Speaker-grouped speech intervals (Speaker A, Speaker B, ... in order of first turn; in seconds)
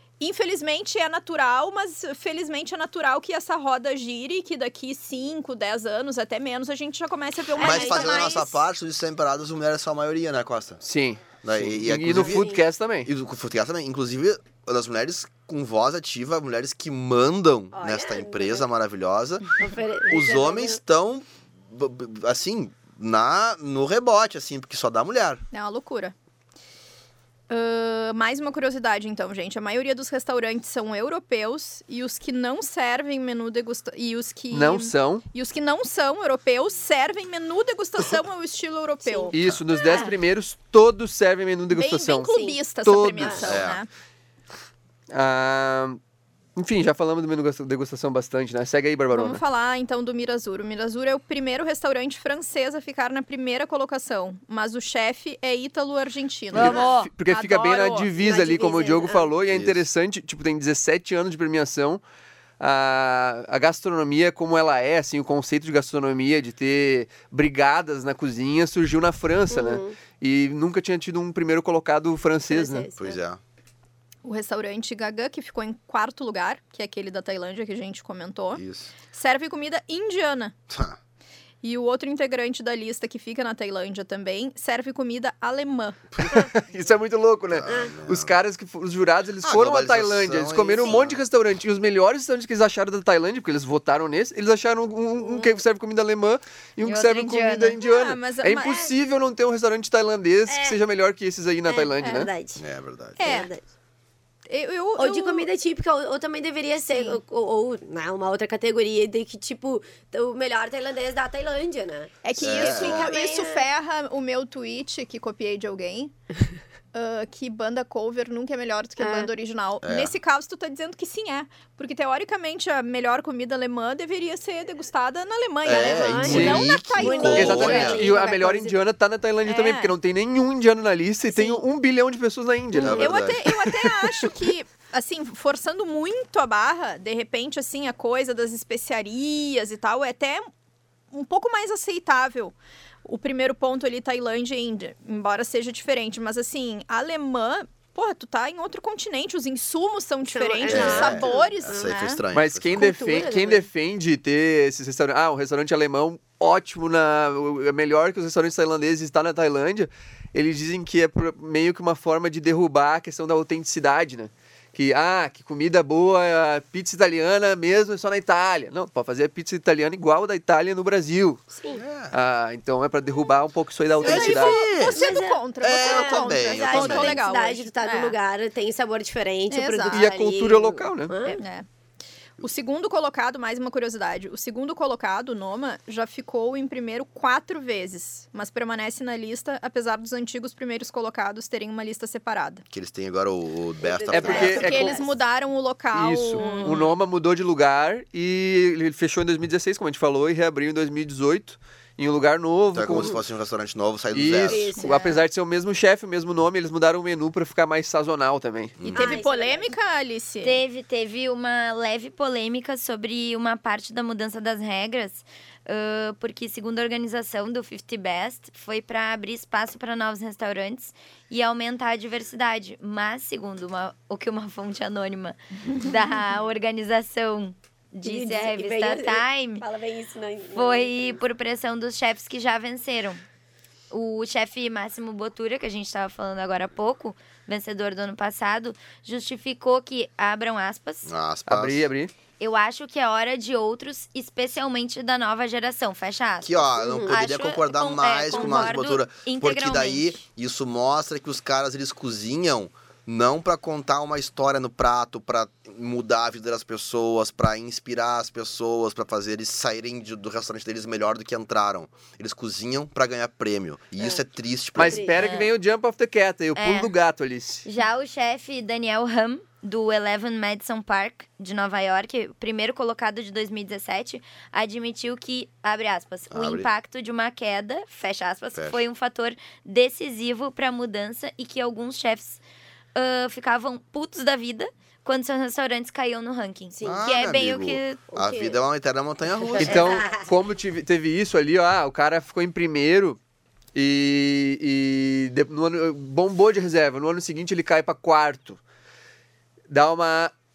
Speaker A: 0.2-8.6, 25.5-26.1, 27.5-39.3, 41.7-43.9, 49.1-58.1, 74.2-80.5, 81.6-86.0, 97.4-98.8, 102.0-102.3, 103.2-103.5, 104.5-105.5, 106.9-107.2, 112.2-116.1, 116.9-128.7, 129.4-129.9, 131.3-131.6, 132.9-140.5, 141.1-152.2, 174.0-178.2, 179.5-180.1, 181.3-181.7, 182.4-192.6, 194.3-196.8, 204.8-205.2, 208.9-210.6
Speaker B: 7.5-8.4, 12.1-12.6, 17.7-18.6, 19.6-20.8, 39.0-39.3, 42.3-42.6, 43.2-43.5, 58.2-59.3, 69.5-70.0, 72.5-73.2, 87.7-87.9, 95.2-95.5, 98.6-98.9, 100.5-100.8, 101.7-102.6, 103.2-103.6, 105.0-113.7, 119.0-119.3, 125.7-128.7, 132.8-133.1, 150.2-151.9, 152.8-153.6, 171.5-171.8, 174.0-181.4, 193.8-195.2, 202.9-203.2, 204.5-205.2, 208.9-209.7, 228.0-231.2, 246.8-247.2, 248.3-248.7, 264.8-265.4, 286.7-287.0, 288.1-288.6, 289.4-290.2
Speaker C: 7.6-10.8, 11.4-25.4, 39.3-39.6, 43.4-43.8, 59.5-59.9, 73.0-73.4, 78.5-78.9, 80.7-81.0, 87.5-88.3, 89.4-91.2, 102.5-103.4, 112.4-113.1, 119.8-120.1, 125.6-128.0, 132.8-133.4, 150.6-152.9, 171.7-172.2, 174.0-175.0, 175.6-177.2, 192.7-194.9, 202.7-204.7, 208.8-209.2, 241.0-241.8, 246.4-265.1, 276.3-276.7, 278.5-278.8, 286.8-290.0
Speaker D: 10.8-13.1, 34.5-35.2, 39.3-42.3, 42.8-43.6, 45.1-46.0, 46.6-49.4, 56.5-62.0, 62.6-72.9, 86.2-102.3, 126.2-133.2, 152.3-171.5, 172.1-174.6, 179.9-181.2, 194.1-194.9, 195.9-203.2, 204.1-208.8, 241.5-242.1, 264.8-267.6, 289.6-293.2, 293.7-298.6, 299.7-300.3
Speaker E: 56.5-57.1, 96.8-97.8, 210.4-229.6, 230.5-233.2, 233.9-241.1, 242.4-250.2, 265.2-265.5, 266.6-266.9, 267.6-282.4, 282.9-288.1